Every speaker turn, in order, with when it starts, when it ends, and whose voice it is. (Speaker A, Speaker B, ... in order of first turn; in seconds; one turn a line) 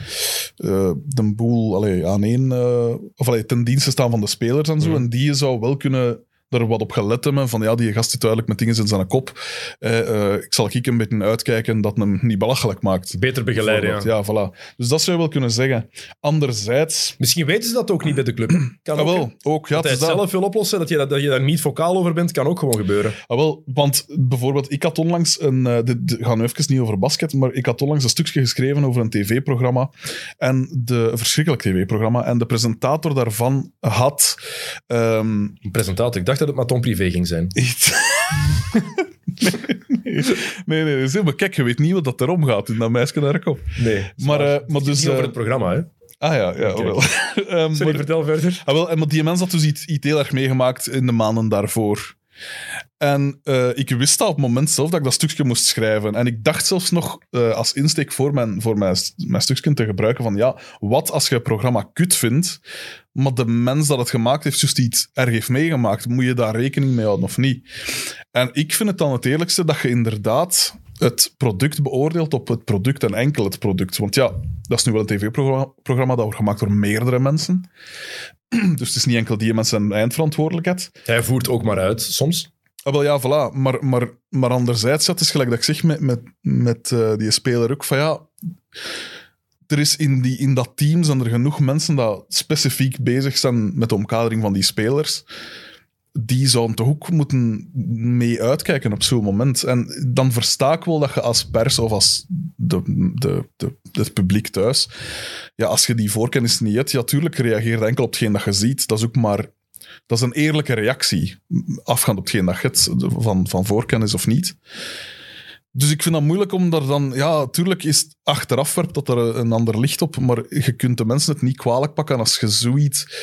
Speaker A: 0.6-17.1
Speaker B: 13.1-14.1
Speaker B: 17.2-23.2
Speaker A: 18.9-20.3
Speaker A: 23.3-35.6
Speaker B: 35.6-37.5
Speaker A: 37.5-38.8
Speaker A: 39.4-45.4
Speaker B: 43.8-45.9
Speaker A: 46.2-52.1
Speaker B: 46.6-47.0
Speaker B: 47.7-48.6
Speaker A: 53.0-62.6
Speaker A: 63.1-67.7
Speaker A: 68.3-77.7
Speaker A: 78.5-80.9
Speaker B: 81.0-82.5
Speaker A: 82.8-88.3
Speaker A: 89.7-95.2
Speaker A: 96.1-104.9
Speaker A: 105.6-109.5
Speaker A: 110.1-114.6
Speaker A: 115.7-123.1